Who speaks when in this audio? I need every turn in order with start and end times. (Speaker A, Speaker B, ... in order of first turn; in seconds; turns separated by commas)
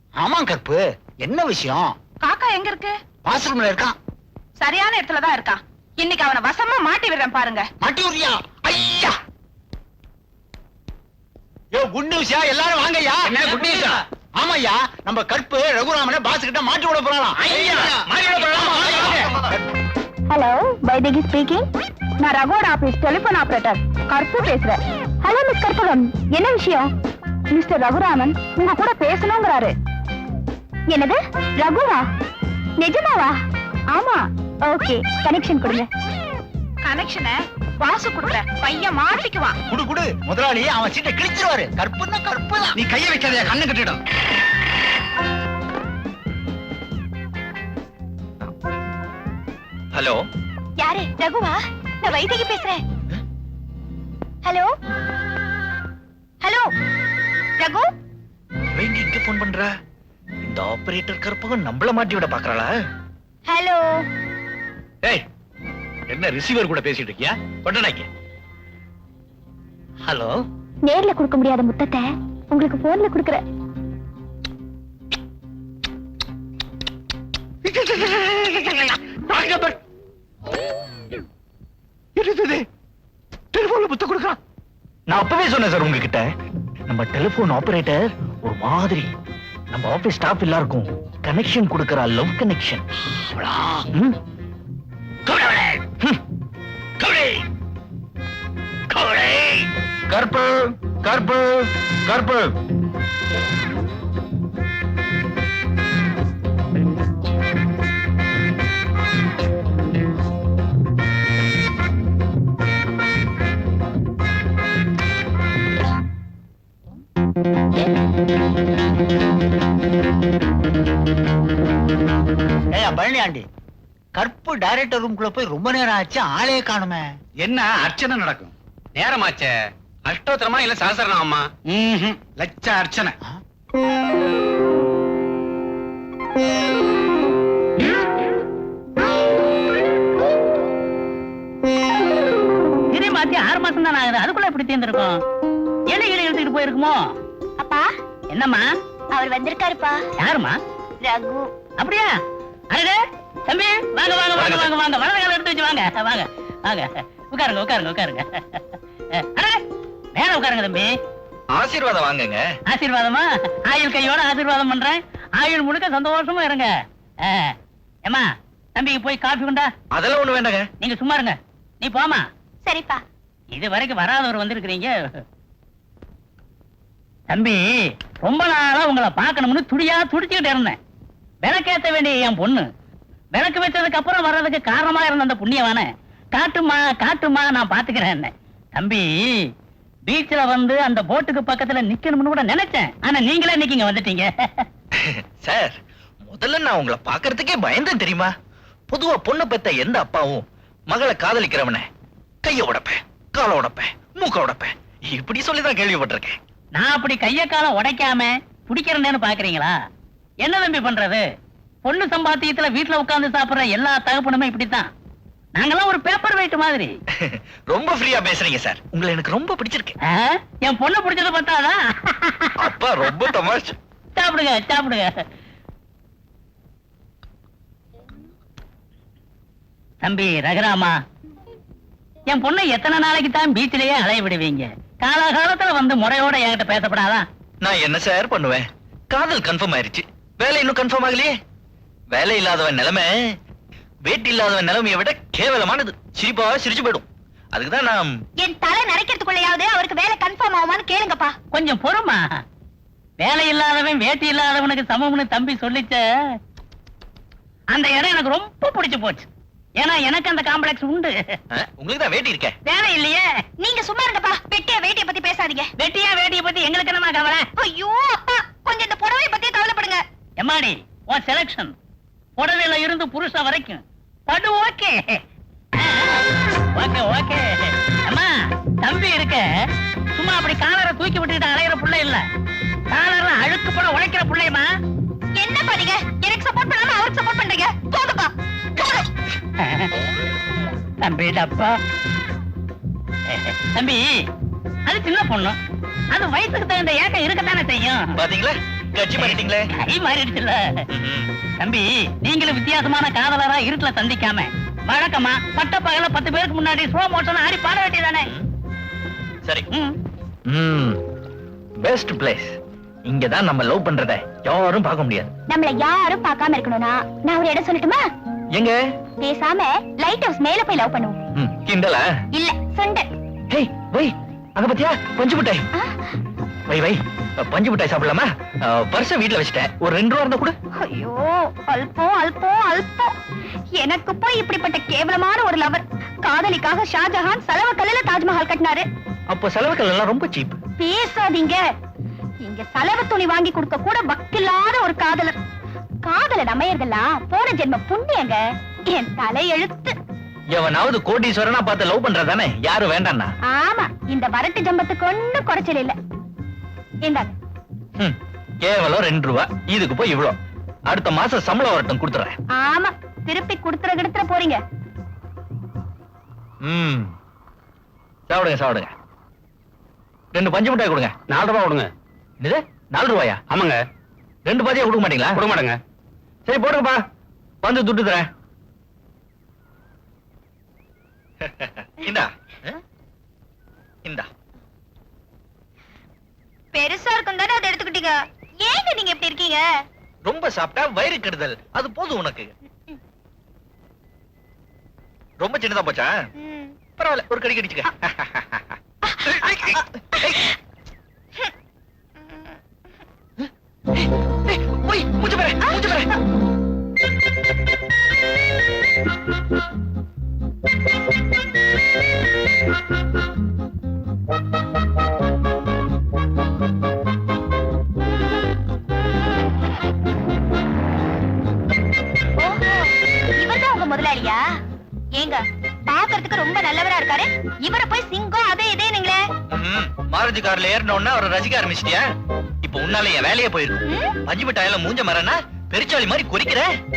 Speaker A: 0.2-1.9, Speaker B: 2.2-2.9, Speaker A: 3.3-4.0, Speaker B: 4.6-7.7, Speaker A: 7.8-9.1, Speaker A: 11.7-19.5, Speaker C: 13.3-13.9, Speaker C: 17.6-19.2, Speaker D: 20.3-21.6, Speaker D: 22.2-26.9, Speaker D: 27.5-29.7, Speaker D: 30.9-32.0, Speaker D: 32.8-33.3, Speaker D: 33.9-35.9, Speaker B: 36.8-39.6, Speaker A: 39.7-42.8, Speaker C: 42.8-44.0, Speaker E: 49.9-50.2, Speaker D: 50.8-52.8, Speaker D: 54.4-54.7, Speaker D: 56.4-56.7, Speaker D: 57.6-57.9, Speaker E: 58.7-59.7, Speaker E: 60.4-62.7, Speaker D: 63.5-63.9, Speaker E: 66.1-68.1, Speaker E: 70.1-70.3, Speaker D: 70.9-73.4, Speaker E: 77.7-79.8, Speaker E: 82.2-82.6, Speaker E: 83.5-84.4, Speaker E: 85.1-86.3, Speaker E: 86.9-89.1, Speaker E: 89.7-92.8, Speaker E: 93.9-94.2, Speaker E: 97.0-97.4, Speaker E: 98.9-102.5, Speaker A: 122.7-123.5, Speaker A: 124.2-127.1, Speaker C: 127.4-133.2, Speaker F: 142.9-145.2, Speaker F: 145.9-147.0, Speaker D: 147.6-147.9, Speaker F: 148.3-148.7, Speaker D: 149.1-150.0, Speaker F: 150.2-150.6, Speaker D: 151.0-151.5, Speaker F: 151.8-152.1, Speaker F: 152.7-158.6, Speaker E: 154.3-154.7, Speaker F: 159.2-159.6, Speaker F: 160.2-160.9, Speaker E: 161.5-162.4, Speaker F: 162.7-166.7, Speaker F: 167.2-167.6, Speaker F: 168.1-169.7, Speaker E: 169.9-170.7, Speaker F: 170.8-172.2, Speaker D: 172.7-173.0, Speaker F: 173.5-174.9, Speaker F: 177.3-180.8, Speaker F: 181.4-182.7, Speaker F: 183.3-189.4, Speaker F: 190.1-194.7, Speaker E: 194.9-198.3, Speaker E: 198.9-201.9, Speaker E: 202.4-206.4, Speaker F: 206.8-209.7, Speaker F: 210.4-211.2, Speaker F: 211.8-214.9, Speaker F: 215.6-216.9, Speaker E: 217.2-220.0, Speaker F: 220.1-222.5, Speaker E: 222.6-223.8, Speaker F: 224.2-225.1, Speaker F: 230.0-230.9, Speaker F: 232.3-237.2, Speaker E: 237.6-241.3, Speaker E: 242.1-243.1, Speaker E: 244.1-248.1, Speaker D: 248.4-251.4, Speaker F: 251.5-252.2, Speaker F: 253.2-256.3, Speaker F: 257.7-259.3, Speaker F: 259.8-261.4, Speaker E: 261.5-262.6, Speaker F: 262.6-263.3, Speaker D: 263.6-265.7, Speaker F: 265.8-267.5, Speaker D: 267.6-270.0, Speaker F: 270.4-271.7, Speaker F: 272.4-275.2, Speaker F: 275.8-276.2, Speaker F: 276.7-279.5, Speaker F: 280.1-282.2, Speaker F: 282.9-284.7, Speaker D: 285.4-288.3, Speaker F: 289.6-289.9, Speaker F: 291.0-291.8, Speaker F: 293.3-294.2, Speaker F: 294.9-295.6, Speaker F: 296.1-298.1, Speaker E: 298.1-299.7, Speaker F: 299.2-300.7, Speaker E: 300.9-301.3, Speaker F: 301.6-308.3, Speaker E: 310.5-311.0, Speaker E: 311.8-312.6, Speaker E: 313.1-315.3, Speaker D: 315.5-318.0, Speaker D: 319.2-321.2, Speaker E: 321.4-322.1, Speaker D: 322.3-323.1, Speaker E: 323.5-325.7, Speaker E: 326.7-330.5, Speaker D: 330.8-333.1, Speaker D: 333.8-338.9, Speaker E: 339.3-340.6, Speaker D: 340.8-341.6, Speaker D: 342.4-345.4, Speaker D: 346.1-350.0, Speaker E: 350.5-353.3, Speaker D: 353.5-356.0, Speaker D: 357.0-357.3, Speaker E: 358.0-360.4, Speaker E: 360.9-362.4, Speaker D: 362.5-364.6, Speaker E: 366.6-367.1, Speaker E: 368.3-368.9, Speaker E: 370.3-371.1, Speaker C: 371.3-371.9, Speaker E: 372.4-373.4, Speaker C: 373.5-373.8, Speaker E: 374.5-375.4, Speaker C: 375.4-375.8, Speaker E: 376.5-377.0, Speaker E: 377.6-378.3, Speaker E: 381.4-382.8, Speaker D: 386.7-389.6, Speaker E: 390.2-392.5, Speaker E: 395.4-396.1, Speaker D: 396.4-396.7, Speaker E: 397.0-398.7, Speaker D: 399.1-400.4, Speaker E: 399.3-400.4, Speaker E: 403.4-406.1, Speaker D: 405.6-406.0, Speaker D: 422.4-424.4, Speaker D: 425.1-429.2, Speaker E: 429.5-432.0, Speaker E: 432.6-436.7, Speaker D: 433.9-434.2